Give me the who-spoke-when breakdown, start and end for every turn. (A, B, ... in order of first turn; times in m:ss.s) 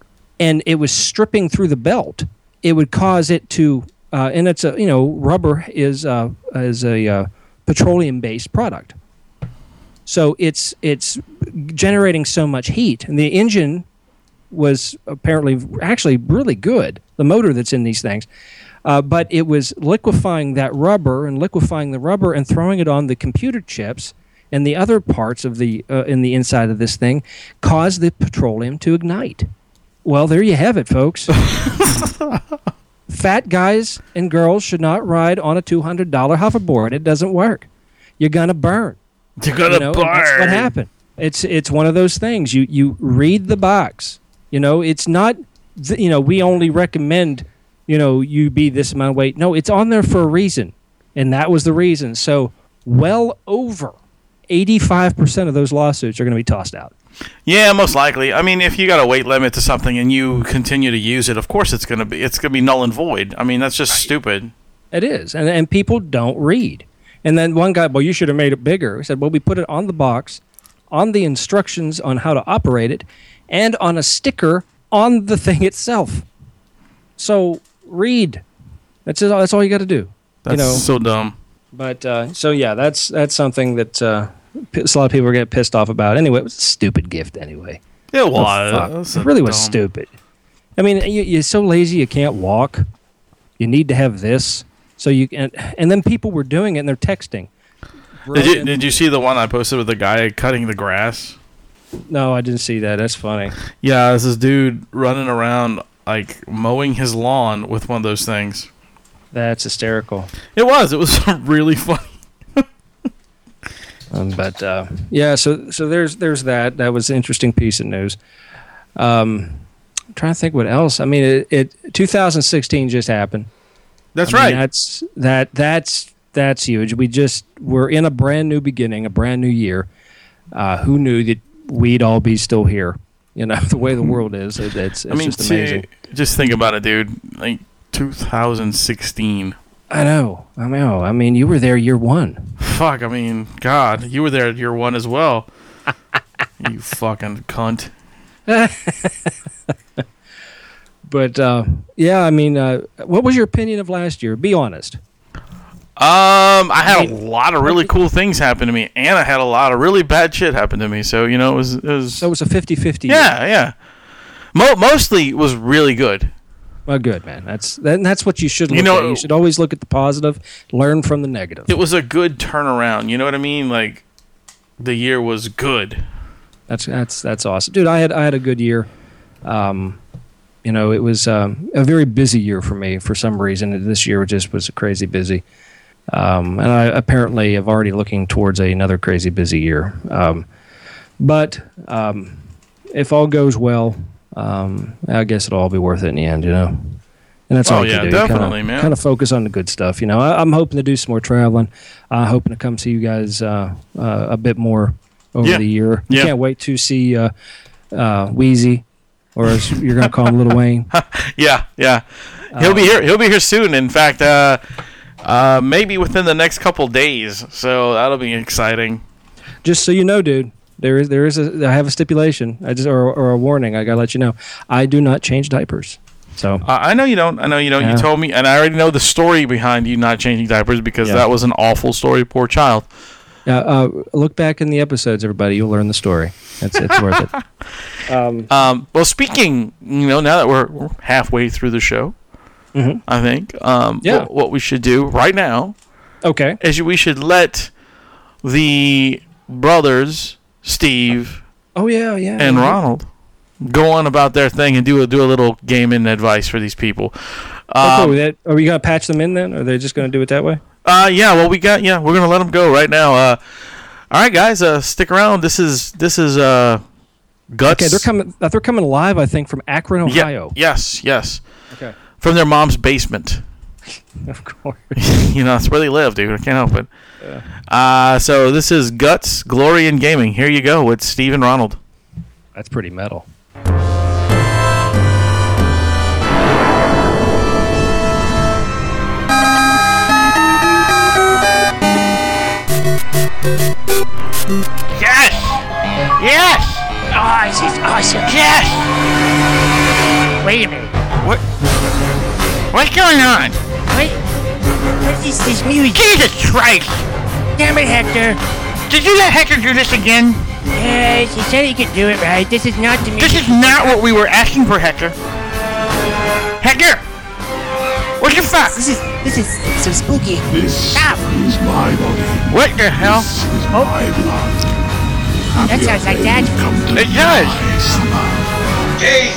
0:00.4-0:08.9 A
0:10.1-0:13.9 A
0:14.5-0:18.3 A
0:18.8-0:29.5 A
0:30.0-0:31.4 A
0:31.5-0:32.4 B
0:33.1-0:37.7 A
0:38.2-0:39.0 A
0:39.4-0:40.7 B
0:39.7-0:54.0 A
0:54.5-0:56.9 A
0:57.5-1:04.5 B
1:04.9-1:16.3 A
1:17.2-1:18.4 A
1:19.1-1:20.9 A
1:20.4-1:21.4 B
1:21.7-1:27.8 A
1:28.1-1:29.8 B
1:28.4-1:30.1 A
1:30.8-1:32.8 A
1:33.6-1:37.5 A
1:38.2-1:38.8 A
1:38.3-1:41.4 B
1:42.1-1:43.6 A
1:43.8-1:48.7 B
1:49.3-1:50.3 A
1:50.5-1:52.7 B
1:54.1-1:58.2 A
1:59.0-1:59.6 A
2:00.1-2:03.5 A
2:04.2-2:04.6 B
2:04.3-2:09.9 A
2:10.5-2:15.9 A
2:15.1-2:19.6 B
2:19.9-2:22.6 A
2:22.6-2:25.5 B
2:26.6-2:27.9 B
2:28.5-2:29.3 A
2:31.0-2:35.0 A
2:36.0-2:42.3 B
2:36.9-2:37.1 A
2:42.2-2:43.3 A
2:43.1-2:43.7 B
2:44.5-2:46.3 B
2:46.9-2:51.7 A
2:48.7-2:49.3 B
2:51.7-2:54.0 B
2:54.8-2:56.0 B
2:56.7-2:58.9 A
2:59.4-3:00.0 A
3:00.6-3:05.4 A
3:06.1-3:10.5 A
3:11.2-3:12.4 A
3:12.9-3:27.3 A
3:17.6-3:18.9 B
3:25.4-3:26.3 B
3:27.9-3:30.9 A
3:29.5-3:30.3 B
3:30.9-3:34.6 B
3:32.5-3:33.0 A
3:35.2-3:39.0 B
3:39.6-3:46.6 A
3:46.6-3:52.9 B
3:47.8-3:48.1 A
3:53.5-3:57.3 A
3:56.9-3:57.3 B
3:58.1-3:58.5 A
3:58.5-4:02.2 B
4:02.8-4:03.0 A
4:03.1-4:05.8 B
4:06.2-4:06.6 A
4:06.6-4:07.7 B
4:08.4-4:11.4 B
4:11.8-4:12.8 A
4:12.4-4:13.1 B
4:13.6-4:18.2 B
4:17.8-4:20.6 A
4:20.8-4:23.4 B
4:24.1-4:26.8 B
4:27.5-4:28.1 B
4:27.6-4:30.6 A
4:30.0-4:31.4 B
4:32.2-4:33.4 B
4:34.2-4:35.0 A
4:35.0-4:36.9 B
4:37.7-4:41.8 B
4:42.6-4:43.3 A
4:55.0-4:55.6 C
4:56.2-4:56.9 C
4:57.1-4:58.3 D
4:58.3-4:58.9 C
5:00.4-5:00.9 D
5:02.7-5:03.6 C
5:03.9-5:04.2 D
5:05.0-5:06.1 D
5:06.0-5:07.0 C
5:07.6-5:08.4 D
5:08.9-5:10.4 C
5:10.7-5:14.0 D
5:13.2-5:15.2 C
5:16.6-5:17.0 C
5:18.2-5:18.7 C
5:18.6-5:21.2 D
5:20.5-5:24.7 E
5:22.5-5:23.3 C
5:25.5-5:28.5 E
5:25.7-5:26.6 D
5:27.0-5:27.6 C